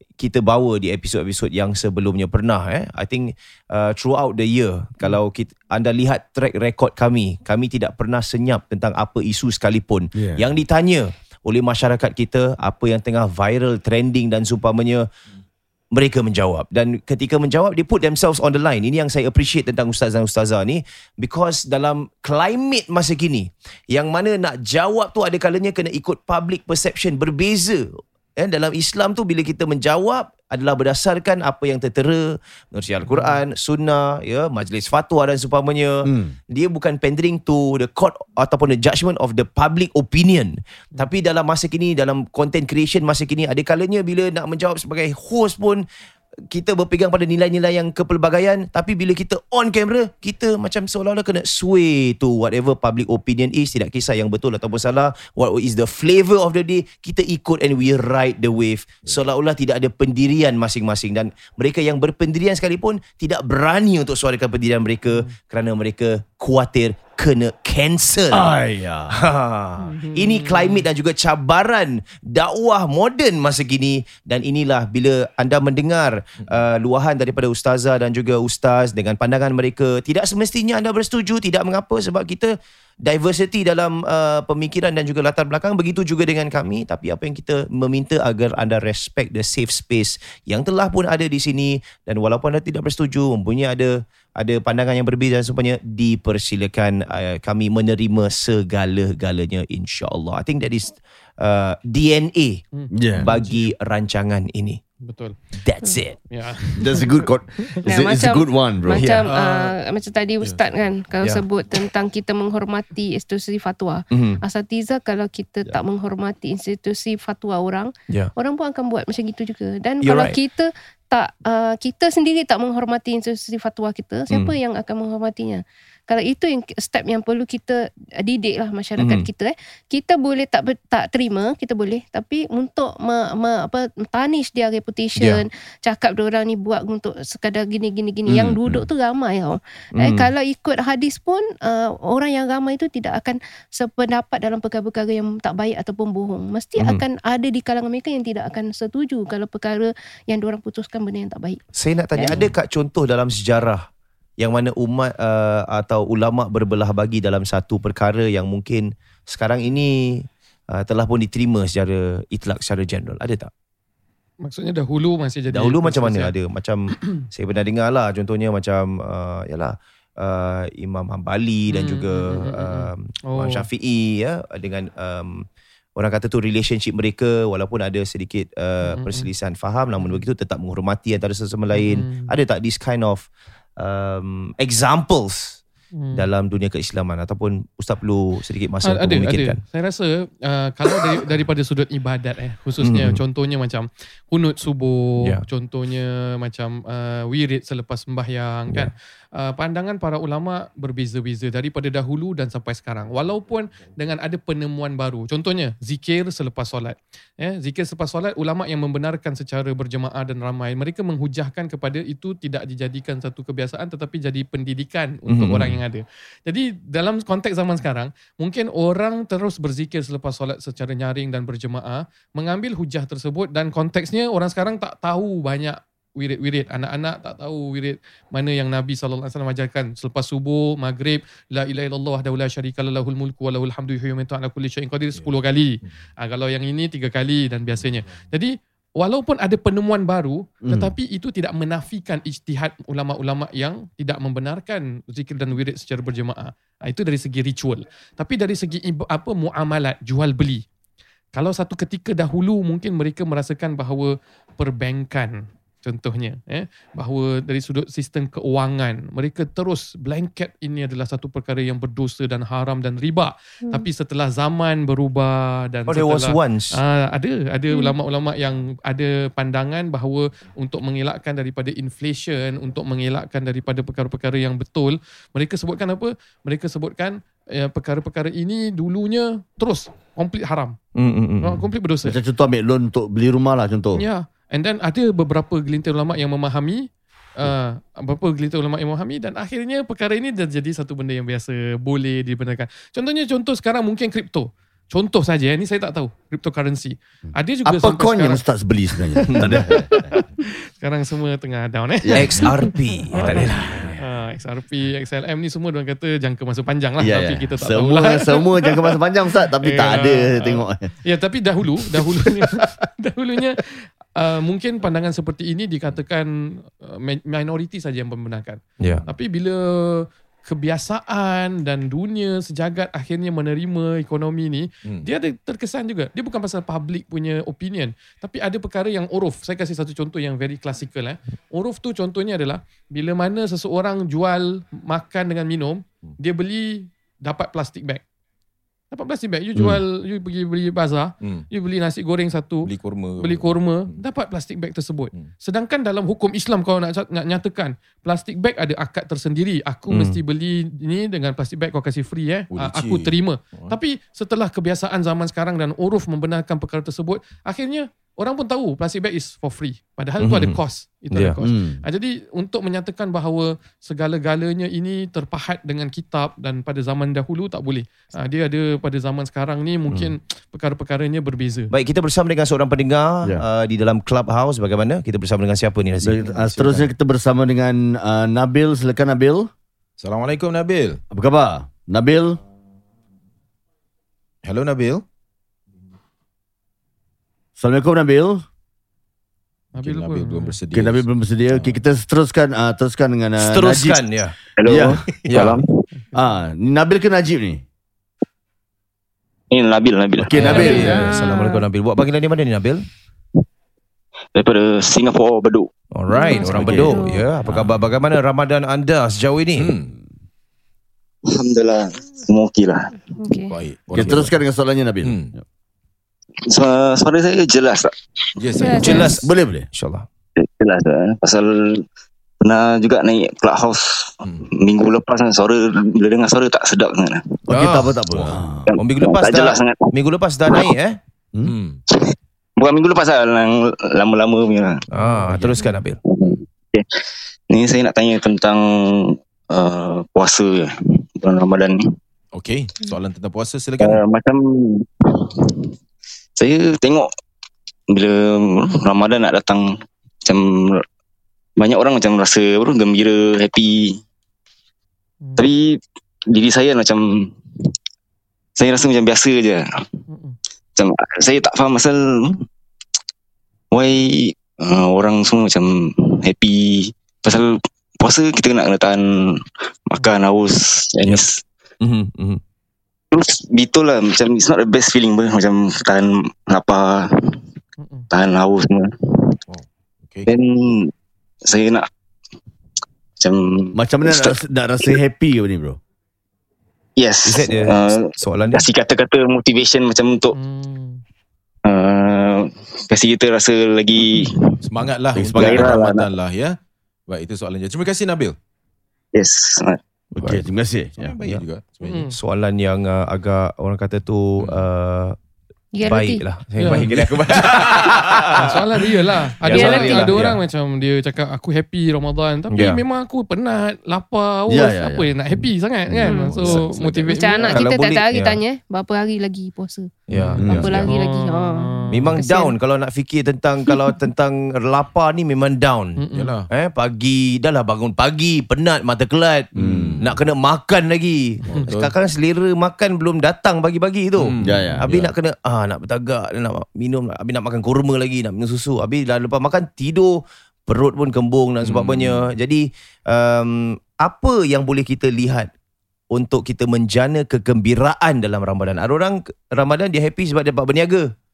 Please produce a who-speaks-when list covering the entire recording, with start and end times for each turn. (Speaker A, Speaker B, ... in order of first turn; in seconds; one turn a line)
Speaker A: 0.2-15.1
Speaker B: 10.1-10.5
Speaker A: 15.9-45.8
Speaker C: 33.1-33.4
Speaker B: 36.0-36.4
Speaker A: 46.5-68.5
Speaker B: 68.3-69.2
Speaker A: 69.1-102.6
Speaker C: 69.8-70.8
Speaker C: 102.7-103.7
Speaker B: 102.9-103.3
Speaker A: 103.1-104.8
Speaker C: 105.0-105.4
Speaker A: 105.6-106.2
Speaker C: 106.3-107.8
Speaker B: 106.8-109.0
Speaker D: 107.8-152.4
Speaker A: 108.9-109.3
Speaker E: 109.3-109.8
Speaker A: 114.1-114.4
Speaker A: 120.0-120.3
Speaker A: 124.3-124.5
Speaker A: 129.0-129.3
Speaker A: 135.2-135.4
Speaker B: 138.3-138.9
Speaker A: 139.9-140.3
Speaker A: 146.8-147.0
Speaker A: 151.7-153.9
Speaker A: 154.4-163.5
Speaker C: 164.4-166.3
Speaker A: 165.5-185.6
Speaker C: 166.9-167.2
Speaker C: 171.7-173.6
Speaker C: 178.8-179.3
Speaker C: 181.7-182.3
Speaker C: 185.9-186.2
Speaker A: 186.1-189.6
Speaker C: 188.8-250.6
Speaker A: 192.8-193.2
Speaker A: 215.3-215.8
Speaker B: 240.6-240.9
Speaker C: 251.3-280.8
Speaker A: 265.9-266.8
Speaker A: 280.9-281.6
Speaker C: 281.4-282.2
Speaker B: 282.0-284.0
Speaker C: 283.9-298.4
Speaker B: 297.6-300.1
Speaker A: 299.3-299.8
Speaker C: 300.1-302.5
Speaker B: 302.0-302.5
Speaker A: 302.1-303.9
Speaker B: 303.1-304.0
Speaker C: 303.1-309.0
Speaker B: 307.0-310.9
Speaker C: 309.6-338.0
Speaker B: 311.8-312.6
Speaker C: 338.9-371.7
Speaker B: 339.6-339.8
Speaker E: 341.2-341.5
Speaker E: 342.6-344.0
Speaker A: 349.9-350.2
Speaker E: 352.5-353.8
Speaker A: 360.2-360.6
Speaker A: 361.1-361.4
Speaker B: 361.4-361.8
Speaker A: 371.7-376.9
Speaker B: 376.0-379.5
Speaker E: 380.0-381.0
Speaker B: 381.1-382.4
Speaker E: 384.4-385.0
Speaker B: 387.6-388.4
Speaker C: 389.7-390.5
Speaker E: 389.8-391.8
Speaker B: 390.7-394.0
Speaker A: 393.4-394.4
Speaker F: 394.6-395.7
Speaker B: 394.6-395.0
Speaker A: 395.2-395.6
Speaker C: 396.0-396.3
Speaker B: 396.1-397.6
Speaker F: 399.5-401.1
Speaker B: 400.2-400.9
Speaker A: 400.4-402.8
Speaker D: 400.4-401.6
Speaker F: 404.4-405.7
Speaker A: 405.9-409.7
Speaker D: 406.1-407.2
Speaker E: 406.2-407.8
Speaker E: 409.6-409.9
Speaker F: 411.3-412.9
Speaker D: 413.2-413.5
Speaker E: 413.5-414.4
Speaker B: 413.9-415.4
Speaker E: 415.0-415.3
Speaker F: 416.5-417.9
Speaker E: 418.4-419.1
Speaker D: 418.6-419.2
Speaker A: 418.8-420.1
Speaker B: 419.2-419.7
Speaker F: 420.4-421.8
Speaker F: 422.4-427.4
Speaker B: 427.5-428.7
Speaker A: 427.5-427.9
Speaker E: 428.1-428.4
Speaker F: 428.7-429.9
Speaker A: 428.8-431.0
Speaker F: 430.5-430.7
Speaker E: 431.4-431.8
Speaker F: 432.6-434.8
Speaker A: 434.9-436.0
Speaker B: 435.1-435.6
Speaker F: 436.1-436.9
Speaker F: 437.5-441.8
Speaker E: 442.3-444.0
Speaker F: 443.8-445.7
Speaker F: 446.4-447.1
Speaker F: 447.9-449.7
Speaker F: 450.2-450.8
Speaker F: 451.6-454.0
Speaker F: 455.4-455.8
Speaker F: 456.3-457.3
Speaker F: 458.6-459.6
Speaker C: 460.1-460.4
Speaker F: 460.8-462.4
Speaker F: 463.7-471.4
Speaker A: 471.8-472.4
Speaker F: 473.1-477.3
Speaker C: 477.8-478.1
Speaker F: 478.1-479.4
Speaker E: 479.5-480.3
Speaker F: 480.3-480.9
Speaker F: 481.4-481.9
Speaker F: 483.2-485.0
Speaker B: 483.7-485.8
Speaker F: 487.0-490.4
Speaker A: 487.2-488.6
Speaker C: 490.3-491.0
Speaker F: 491.6-494.6
Speaker E: 494.6-496.6
Speaker B: 495.1-495.8
Speaker F: 495.4-496.1
Speaker E: 497.1-498.4
Speaker F: 499.1-499.8
Speaker A: 500.1-500.4
Speaker B: 500.2-501.1
Speaker E: 501.0-502.0
Speaker C: 501.9-502.2
Speaker A: 502.1-505.1
Speaker E: 504.4-504.6
Speaker D: 505.7-506.2
Speaker A: 505.8-508.6
Speaker C: 506.6-506.9
Speaker E: 506.6-508.5
Speaker C: 508.4-517.6
Speaker A: 509.4-510.4
Speaker D: 509.5-510.2
Speaker A: 512.5-512.8
Speaker B: 514.5-515.1
Speaker A: 515.9-516.7
Speaker D: 516.0-516.3
Speaker E: 516.3-517.1
Speaker D: 517.1-522.5
Speaker A: 517.5-518.4
Speaker A: 520.1-520.9
Speaker C: 520.1-522.2
Speaker B: 520.4-520.7
Speaker A: 521.9-529.5
Speaker C: 526.0-526.3
Speaker E: 526.1-526.5
Speaker B: 529.5-530.0
Speaker E: 529.5-530.1
Speaker A: 530.0-545.5
Speaker E: 531.7-531.9
Speaker E: 534.2-535.1
Speaker B: 534.4-534.9
Speaker E: 541.6-542.3
Speaker A: 546.1-551.1